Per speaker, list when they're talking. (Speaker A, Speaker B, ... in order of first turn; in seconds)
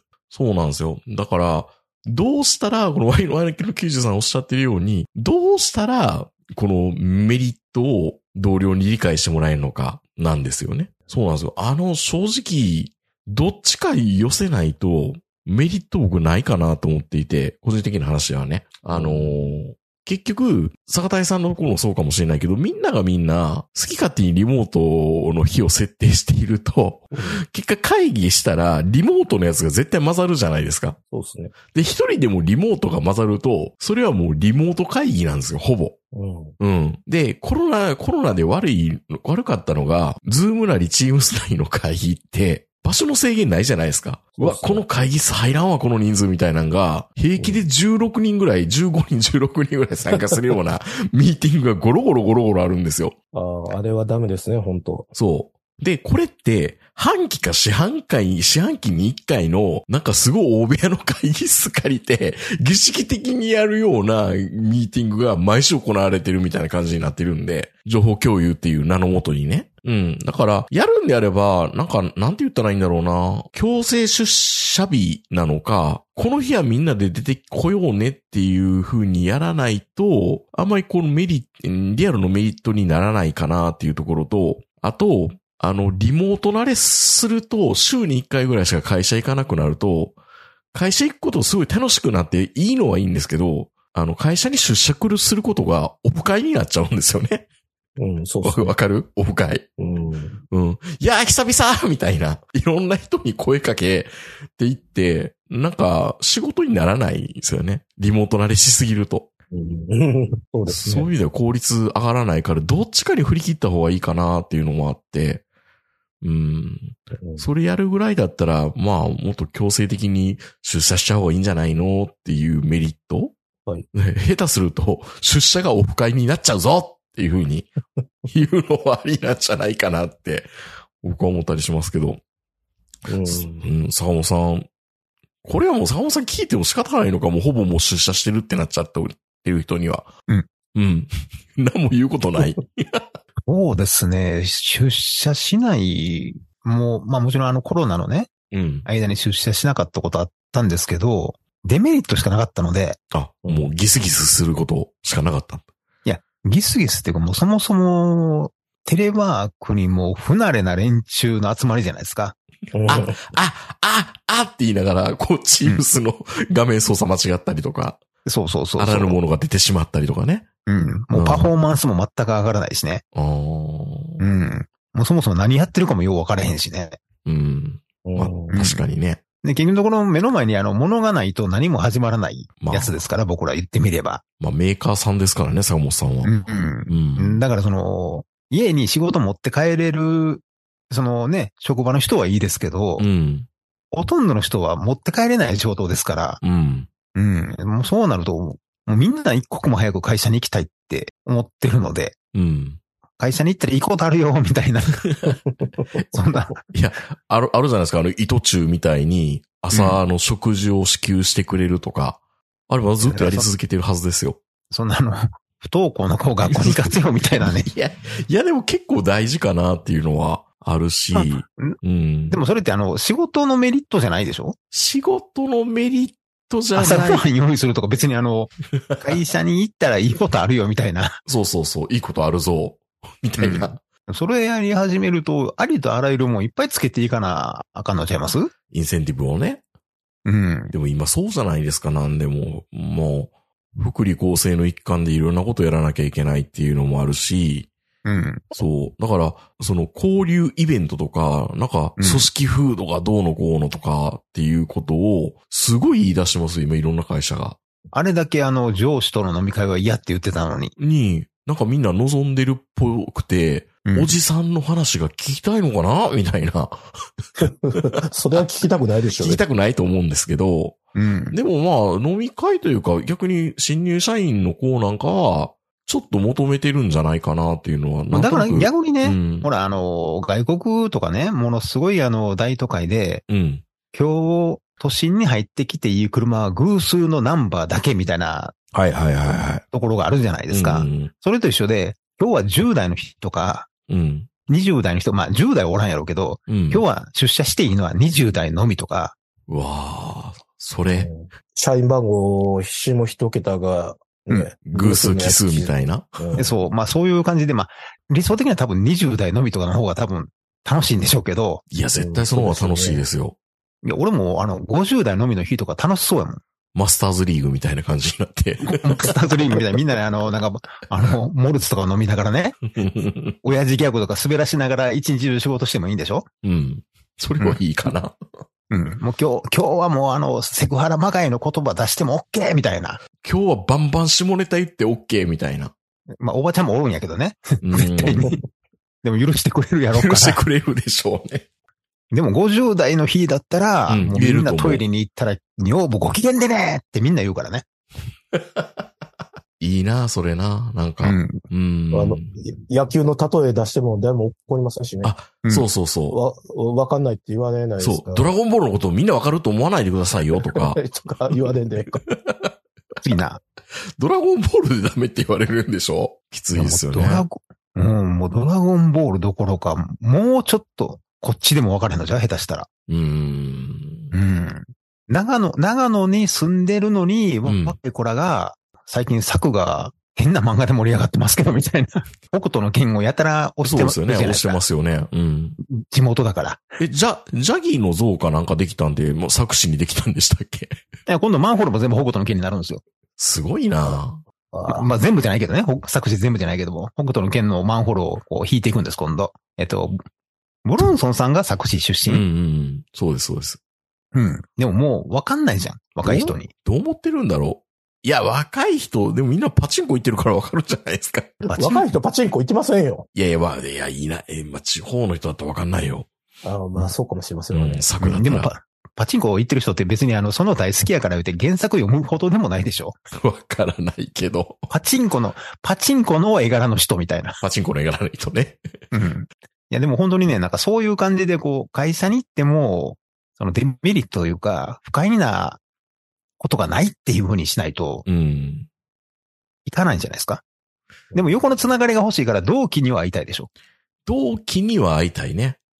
Speaker A: 0.3-31.0, 31.7-36.0, 36.6-53.1, 55.1-90.2, 90.7-97.5, 98.4-99.7, 100.5-109.3, 110.7-115.4, 116.2-123.3, 123.9-127.7, 128.3-130.5, 131.0-132.2, 133.2-134.7, 135.4-140.1, 140.7-143.1, 148.5-148.8, 153.1-155.7, 162.9-168.0, 168.8-170.5, 171.1-171.5, 173.1-174.2, 177.2-179.2, 182.6-183.0, 184.4-186.3, 186.9-187.4, 193.0-193.5, 196.4-196.9, 202.3-202.8, 205.1-205.3, 206.7-214.4, 216.5-222.4, 224.7-227.2, 228.9-229.2, 231.2-233.8, 238.7-239.6, 240.7-247.7, 248.5-257.6, 260.8-266.8, 269.2-270.8, 271.3-279.5, 283.3-283.6, 288.7-289.6, 290.5-291.1, 293.9-294.3, 296.5-296.8, 299.5-301.1, 304.6-306.4, 311.7-313.4, 316.7-319.6, 322.7-323.4, 326.4-328.1, 333.2-335.7, 337.6-338.3, 339.9-341.4, 343.9-344.8, 348.3-348.9, 349.6-352.3, 355.0-356.2, 357.8-360.8, 361.3-362.5, 364.0-367.2, 372.9-374.1, 377.4-377.8, 383.6-385.6, 386.8-390.8, 393.2-394.2, 402.1-403.6, 406.0-411.4, 413.1-416.1, 417.5-418.5, 423.2-424.7, 427.4-428.6, 438.1-438.7, 444.1-445.6
Speaker B: 18.9-19.4, 31.1-31.5, 36.1-36.5, 44.4-44.8, 47.4-47.6, 53.3-55.1, 98.0-98.8, 99.8-100.4, 109.5-111.1, 117.2-117.5, 133.1-133.6, 162.7-163.2, 178.0-178.6, 267.4-269.4, 300.9-306.5, 312.0-313.0, 351.9-355.1, 356.1-358.3, 360.4-362.0, 411.5-413.0, 416.4-417.8
Speaker C: 143.5-148.3, 148.8-153.0, 156.0-162.3, 168.2-169.2, 170.7-173.0, 174.2-177.0, 178.5-178.8, 179.4-184.2, 186.2-193.1, 193.9-196.4, 197.1-202.2, 203.2-205.1, 206.1-206.6, 209.7-210.0, 213.0-213.5, 214.7-217.7, 221.1-221.8, 222.3-224.6, 226.7-231.2, 233.4-238.5, 240.2-240.7, 248.0-248.5, 252.0-252.3, 257.9-260.7, 263.8-264.1, 270.9-271.4, 278.1-283.2, 283.9-288.5, 289.6-293.7, 294.5-299.1, 306.4-311.6, 313.8-316.4, 318.7-322.6, 323.4-326.3, 328.7-333.0, 336.2-338.4, 339.0-340.4, 342.1-347.6, 351.0-351.4, 363.0-363.4, 366.5-372.7, 374.1-384.6, 385.7-386.6, 391.1-392.8, 394.5-400.0, 400.6-402.2, 404.1-406.5, 411.5-411.8, 418.0-423.0, 424.7-427.4, 428.9-435.6, 436.4-438.0, 439.6-440.4, 441.1-443.5